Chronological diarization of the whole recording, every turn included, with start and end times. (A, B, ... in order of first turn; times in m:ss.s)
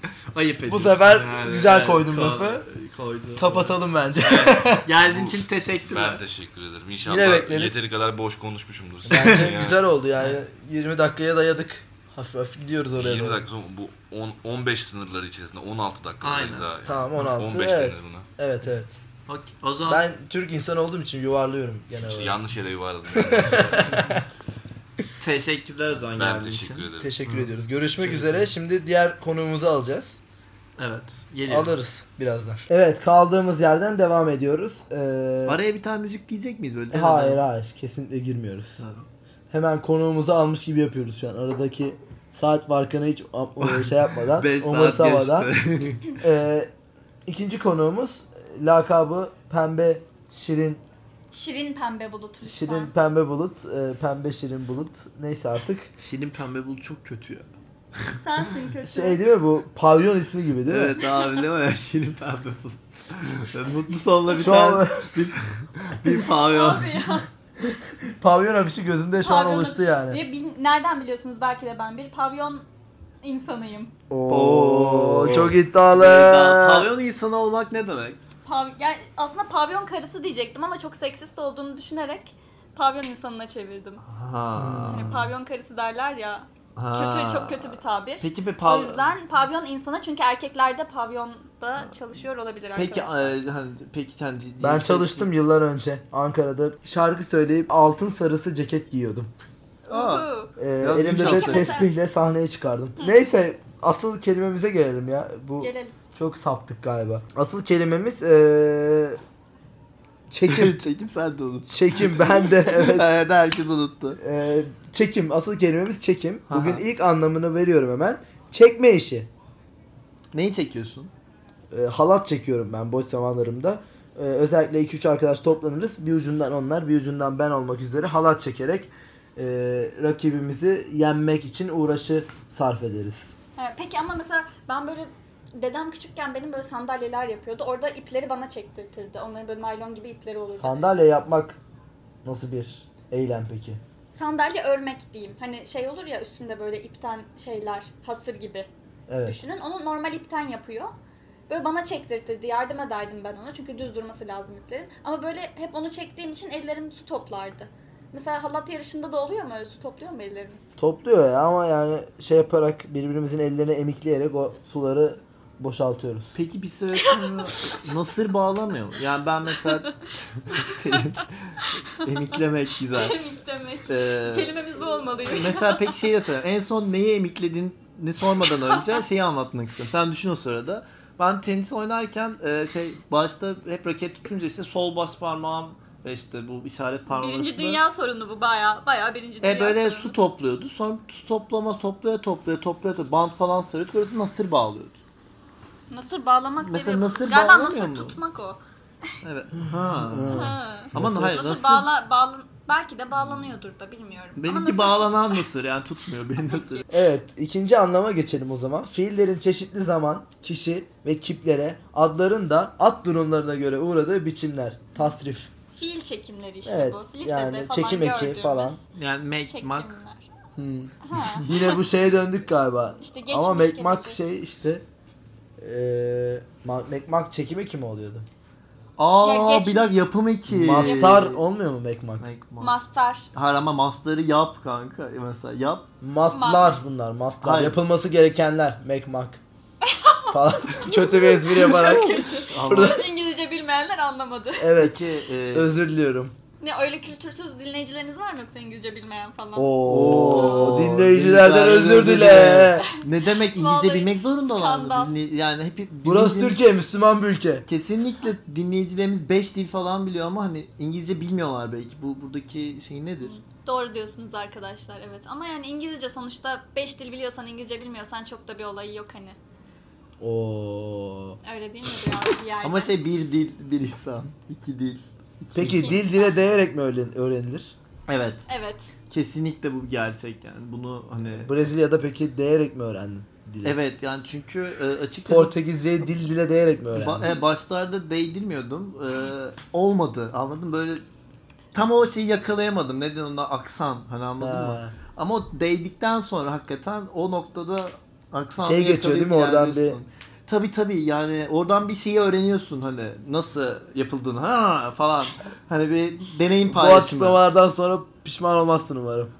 0:00.3-0:03.7 A
0:00.7-0:02.6 B
0:03.4-0:04.8 B
0:04.4-0:09.8 C
0:04.8-0:06.2 A
0:07.0-0:07.8 B
0:09.1-0:13.4 B
0:09.1-0:09.5 A
0:13.0-0:18.2 C
0:16.2-0:16.7 A
0:16.8-0:19.0 B
0:19.3-0:20.0 A
0:19.9-0:22.4 B
0:22.0-0:24.1 C
0:23.1-0:24.2 B
0:25.2-0:27.5 A
0:26.2-0:27.1 C
0:27.0-0:30.2 B
0:28.0-0:28.5 A
0:30.8-0:31.7 A
0:31.5-0:35.6 B
0:35.4-0:37.4 A
0:36.9-0:38.8 B
0:38.8-0:39.0 A
0:39.5-0:45.5 B
0:43.6-0:46.2 A
0:46.2-0:46.7 B
0:47.2-0:50.8 B
0:51.3-0:52.9 D
0:52.4-0:55.9 B
0:56.0-0:57.5 A
0:58.1-0:59.2 D
0:58.8-1:01.0 B
1:00.6-1:06.9 A
1:04.4-1:05.3 B
1:06.4-1:07.3 D
1:08.0-1:10.2 B
1:09.2-1:12.6 D
1:13.2-1:13.9 D
1:14.1-1:16.9 B
1:14.3-1:18.2 A
1:18.4-1:24.0 D
1:24.0-1:25.2 A
1:24.6-1:25.2 B
1:24.9-1:33.4 D
1:26.8-1:29.1 A
1:32.8-1:35.3 A
1:34.6-1:39.3 B
1:39.8-1:40.5 D
1:39.9-1:40.3 A
1:40.6-1:49.2 B
1:40.8-1:41.8 A
1:41.2-1:41.9 D
1:45.6-1:45.9 D
1:50.3-1:50.8 B
1:50.5-1:54.2 A
1:51.7-1:53.1 B
1:54.2-1:59.3 B
1:56.5-1:56.8 A
2:00.3-2:01.1 A
2:01.7-2:13.3 B
2:13.6-2:20.8 D
2:20.5-2:21.6 B
2:22.2-2:23.8 B
2:24.1-2:28.7 D
2:29.1-2:29.4 B
2:29.2-2:30.9 D
2:31.5-2:40.7 D
2:40.8-2:46.4 B
2:46.3-2:53.2 A
2:52.9-2:56.1 D
2:53.9-2:54.5 A
2:55.2-3:07.8 A
3:07.1-3:10.1 D
3:09.4-3:15.0 A
3:15.9-3:18.6 D
3:16.6-3:18.2 A
3:19.2-3:21.9 A
3:20.0-3:21.4 B
3:20.3-3:25.4 D
3:24.4-3:26.8 A
3:26.4-3:26.9 D
3:26.9-3:35.5 B
3:35.7-3:38.8 D
3:36.6-3:38.8 B
3:38.9-3:39.9 A
3:39.4-3:40.3 D
3:40.6-3:44.8 B
3:41.0-3:41.8 D
3:43.0-3:44.2 D
3:45.6-3:48.2 B
3:49.0-3:51.4 A
3:49.2-3:50.0 D
3:50.5-3:52.2 B
3:50.8-3:51.2 D
3:52.2-3:52.7 A
3:52.6-3:53.3 D
3:53.3-3:55.9 A
3:56.0-3:59.4 B
3:56.3-3:56.8 D
3:57.4-3:57.8 A
3:59.8-4:04.7 D
4:00.3-4:03.0 B
4:01.7-4:03.0 A
4:04.6-4:06.3 B
4:04.8-4:05.7 A
4:06.6-4:09.8 D
4:09.6-4:12.9 B
4:09.8-4:16.6 A
4:10.3-4:10.8 D
4:12.9-4:15.1 D
4:16.0-4:17.6 B
4:17.7-4:23.3 A
4:23.2-4:29.4 D
4:30.2-4:31.4 B
4:31.4-4:32.9 D
4:32.6-4:35.9 A
4:35.5-4:37.7 B
4:35.7-4:36.3 D
4:38.1-4:38.5 A
4:38.5-4:38.9 D
4:39.1-4:41.5 A
4:41.4-4:43.8 B
4:43.6-4:45.5 A
4:45.2-4:47.3 B
4:46.9-4:51.0 A
4:51.7-5:07.4 A
4:54.4-4:54.9 B
4:58.6-5:00.0 B
5:06.6-5:09.3 B